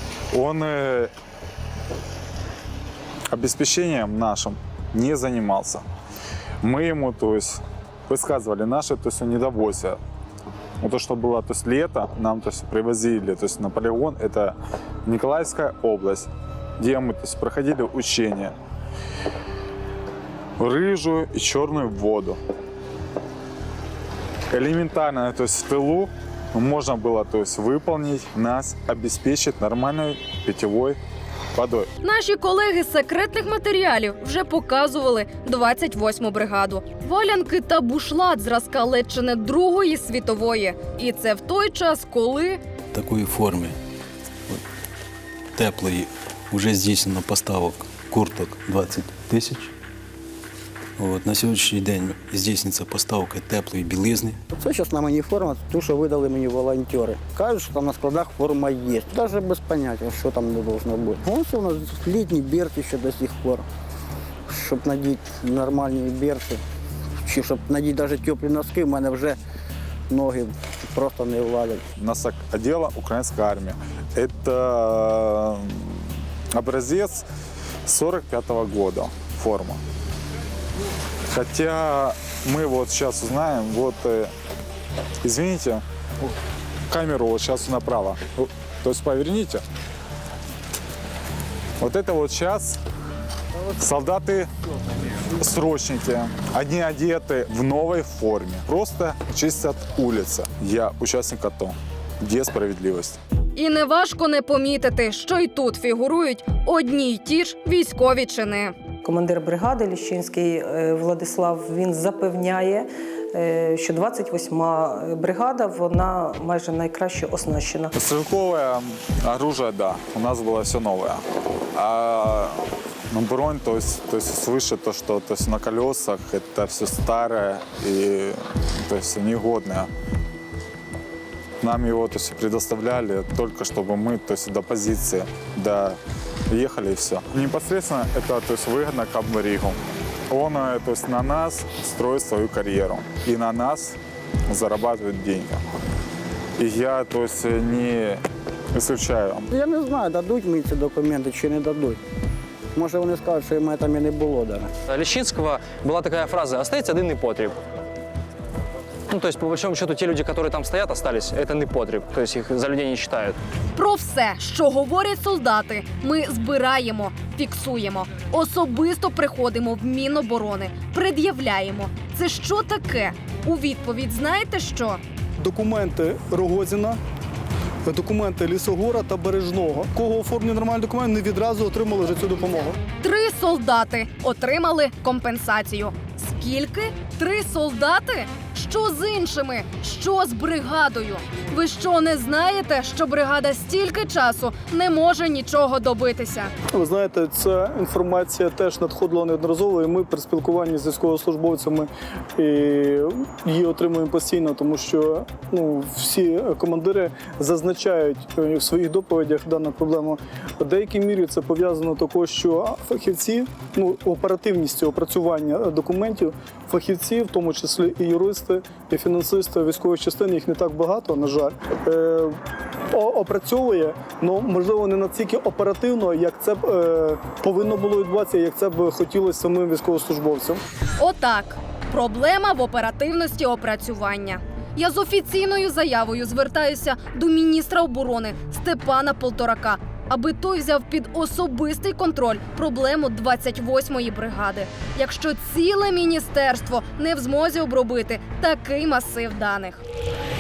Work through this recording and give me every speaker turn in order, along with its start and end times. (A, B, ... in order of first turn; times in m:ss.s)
0:00.3-0:01.1 A
0:03.3-0:05.8 A
0:06.6-0:10.0 A
0:10.8-0:18.5 A
0:20.6-0:22.4 A
0:24.5-0:31.0 A
0:31.5-0:31.9 A
0:32.0-0:42.6 B
0:42.9-0:43.8 C
0:45.5-0:49.7 C
0:51.0-0:54.4 C
0:54.5-1:03.6 D
1:04.5-1:06.6 D
1:07.2-1:09.4 D
1:10.1-1:11.8 D
1:12.0-1:16.0 A
1:16.5-1:17.2 A
1:17.9-1:19.8 A
1:21.3-1:24.3 A
1:25.2-1:25.8 A
1:26.9-1:29.6 A
1:31.8-1:32.8 A
1:33.8-1:34.5 A
1:35.4-1:43.2 A
1:43.6-1:48.7 B
1:49.0-1:57.9 E
1:57.9-2:01.2 A
2:01.8-2:02.6 A
2:03.1-2:09.9 A
2:11.6-2:16.0 A
2:16.5-2:19.8 A
2:20.3-2:25.6 A
2:26.6-2:28.2 A
2:28.7-2:29.5 A
2:29.5-2:32.0 D
2:32.7-2:34.7 D
2:34.9-2:37.6 F
2:39.1-2:43.4 F
2:43.8-2:55.0 B
2:55.4-2:57.0 G
2:57.9-3:02.8 G
3:03.0-3:16.5 B
3:16.7-3:42.4 G
3:42.9-3:50.6 G
3:51.0-4:09.8 B